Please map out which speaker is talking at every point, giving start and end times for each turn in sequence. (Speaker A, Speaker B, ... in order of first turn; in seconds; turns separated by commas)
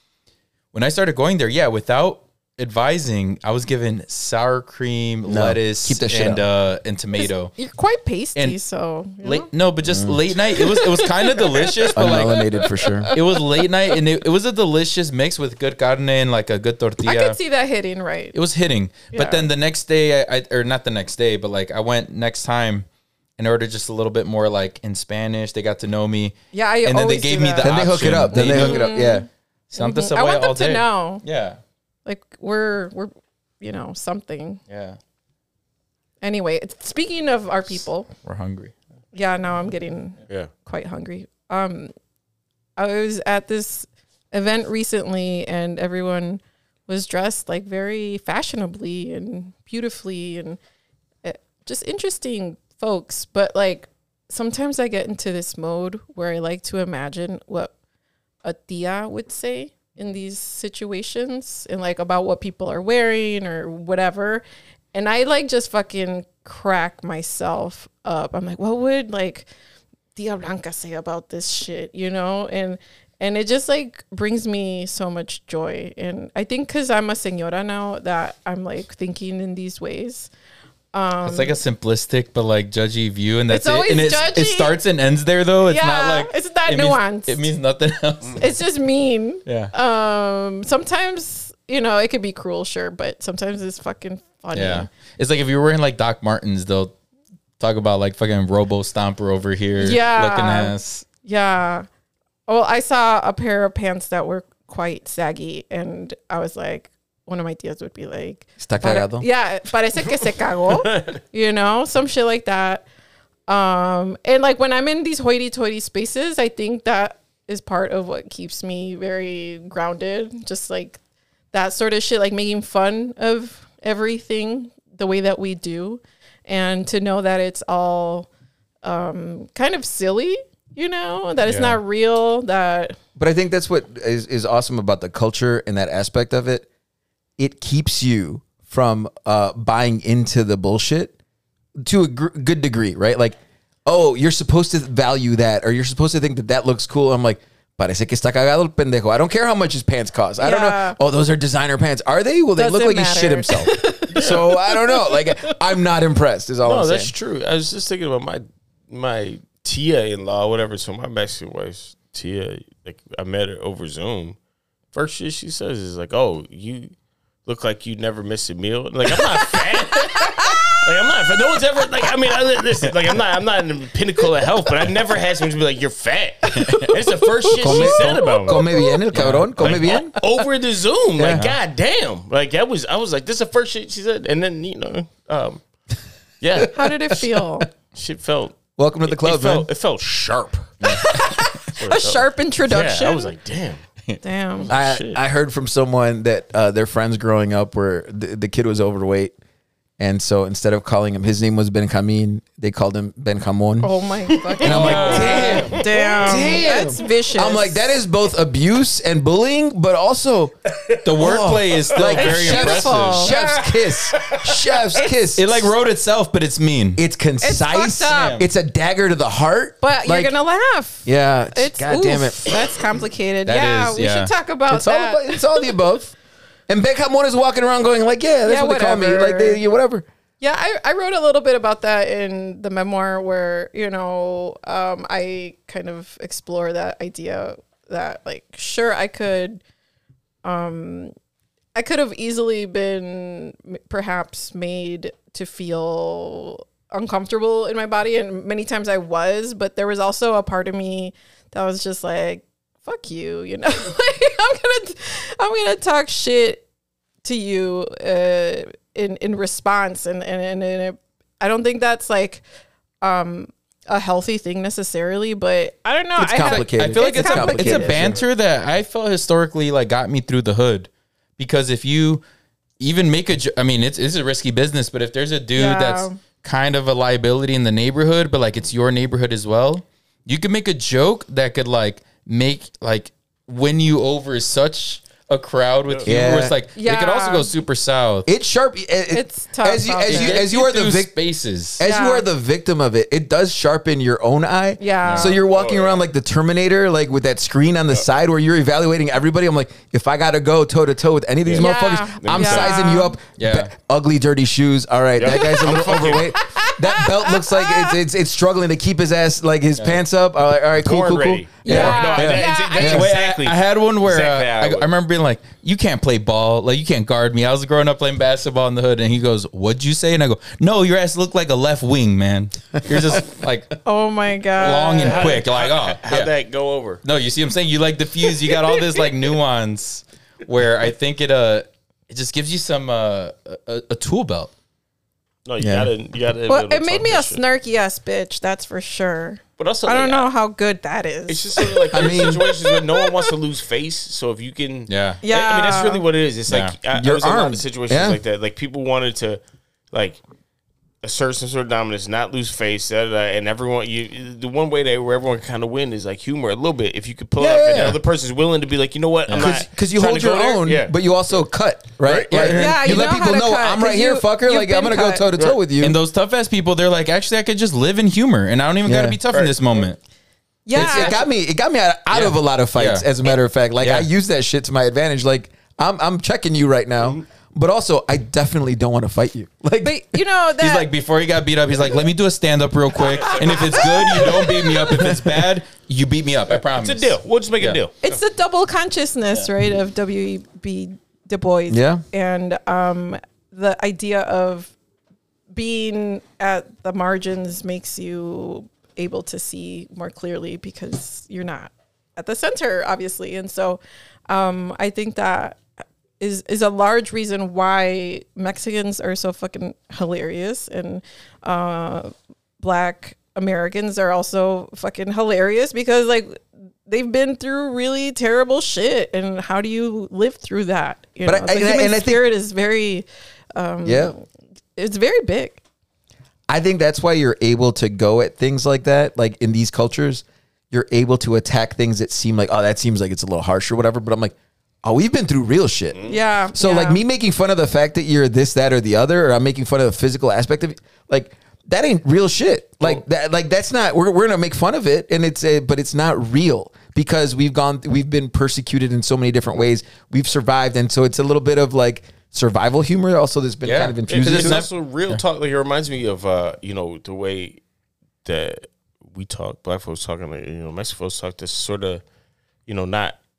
Speaker A: 0.7-7.5, Speaker B: 5.2-6.4, Speaker C: 7.2-9.5, Speaker A: 9.2-17.4, Speaker B: 9.8-10.2, Speaker C: 10.6-13.7, Speaker B: 11.9-13.1, Speaker C: 17.0-18.4, Speaker A: 18.3-22.9, Speaker C: 19.1-19.5, Speaker A: 23.4-28.9, Speaker C: 26.5-31.2, Speaker B: 27.6-29.3, Speaker A: 29.7-31.6, Speaker C: 32.0-34.6, Speaker A: 34.7-35.0, Speaker C: 36.2-38.1, Speaker A: 38.2-38.7, Speaker C: 39.1-41.9, Speaker C: 42.8-50.6, Speaker C: 51.2-57.7, Speaker C: 58.4-64.4, Speaker C: 64.9-69.5, Speaker C: 70.1-80.3, Speaker C: 80.9-81.6, Speaker A: 81.2-88.5, Speaker C: 83.5-84.8, Speaker C: 85.6-87.4, Speaker C: 88.4-94.9, Speaker A: 89.5-89.7, Speaker A: 94.5-97.0, Speaker A: 97.6-101.1, Speaker C: 99.8-101.9, Speaker C: 102.5-112.9, Speaker B: 108.6-109.2, Speaker D: 110.8-111.1, Speaker C: 113.5-121.0, Speaker C: 121.5-128.3, Speaker C: 128.8-133.0, Speaker A: 131.5-131.8, Speaker B: 133.2-136.7, Speaker B: 137.4-141.1, Speaker B: 141.8-157.1, Speaker C: 150.4-151.0, Speaker C: 152.6-155.5, Speaker D: 154.1-154.5, Speaker D: 156.6-164.4, Speaker D: 164.9-166.9, Speaker D: 167.4-178.8, Speaker C: 169.7-170.7, Speaker A: 176.6-176.9, Speaker C: 176.6-176.9, Speaker C: 177.4-179.0, Speaker B: 177.6-180.1, Speaker A: 179.1-179.9, Speaker D: 179.6-185.6, Speaker B: 181.2-181.5, Speaker A: 181.3-181.6, Speaker D: 186.4-186.8, Speaker C: 186.6-187.7, Speaker D: 187.9-190.7, Speaker B: 188.8-189.7, Speaker C: 190.8-193.3, Speaker D: 191.7-193.8, Speaker C: 194.2-194.7, Speaker D: 194.6-195.2, Speaker B: 194.7-199.3, Speaker B: 200.0-203.9, Speaker C: 203.8-208.0, Speaker D: 204.3-206.5, Speaker B: 204.6-210.5, Speaker A: 204.6-205.7, Speaker D: 210.8-212.2, Speaker A: 211.0-213.4, Speaker B: 211.1-215.7, Speaker C: 212.2-213.5, Speaker D: 213.5-214.8, Speaker A: 215.3-217.0, Speaker B: 217.0-220.3, Speaker C: 217.4-218.4, Speaker A: 218.1-218.5, Speaker C: 219.8-225.8, Speaker B: 221.1-222.6, Speaker A: 223.5-224.3, Speaker B: 224.7-226.1, Speaker B: 226.7-230.1, Speaker C: 228.4-229.6, Speaker C: 230.4-239.6, Speaker C: 240.4-241.1, Speaker C: 241.8-256.6, Speaker C: 257.2-262.4, Speaker C: 263.0-268.1, Speaker B: 266.2-268.2, Speaker A: 266.4-272.2, Speaker A: 272.8-288.3, Speaker C: 275.5-276.2, Speaker B: 286.1-286.6, Speaker C: 286.8-287.5, Speaker B: 288.2-291.1, Speaker C: 289.1-290.4, Speaker A: 290.1-291.8, Speaker B: 291.8-313.1, Speaker C: 291.8-292.2, Speaker C: 294.8-295.4, Speaker A: 295.0-295.4, Speaker D: 295.5-296.0, Speaker D: 301.4-302.9, Speaker C: 301.6-303.2, Speaker A: 303.4-303.7, Speaker D: 305.2-306.3, Speaker C: 305.3-305.6, Speaker C: 306.3-308.0, Speaker D: 310.8-314.9, Speaker C: 311.6-313.1, Speaker A: 311.7-312.1, Speaker A: 312.8-323.8, Speaker C: 323.9-325.4, Speaker A: 324.6-326.3, Speaker D: 324.6-327.0, Speaker A: 327.0-334.5, Speaker D: 335.4-337.4, Speaker B: 335.6-335.9, Speaker C: 336.5-343.3, Speaker D: 339.6-340.3, Speaker D: 341.3-350.2, Speaker B: 341.9-342.5, Speaker A: 344.9-345.2, Speaker C: 345.2-346.1, Speaker A: 346.5-346.8, Speaker B: 346.9-348.2, Speaker D: 351.0-360.9, Speaker B: 357.4-358.0, Speaker B: 359.3-366.0, Speaker D: 362.0-362.6, Speaker A: 362.3-363.1, Speaker C: 362.5-365.3, Speaker A: 365.8-370.0, Speaker B: 368.8-369.2, Speaker D: 369.3-369.9, Speaker C: 370.6-371.2, Speaker A: 370.7-371.2, Speaker B: 370.7-380.2, Speaker A: 372.1-373.1, Speaker A: 373.8-374.1, Speaker C: 379.8-380.9, Speaker A: 380.6-387.8, Speaker D: 383.1-384.1, Speaker C: 383.3-384.8, Speaker B: 384.9-385.5, Speaker D: 386.5-388.0, Speaker C: 388.0-394.7, Speaker B: 391.7-392.0, Speaker C: 395.5-405.6, Speaker C: 406.2-424.2, Speaker B: 421.2-422.2, Speaker B: 423.9-424.1, Speaker C: 424.8-425.6, Speaker B: 426.5-454.6, Speaker C: 436.1-437.0, Speaker A: 453.6-455.2, Speaker D: 454.1-457.6, Speaker D: 458.2-462.0, Speaker D: 462.6-463.2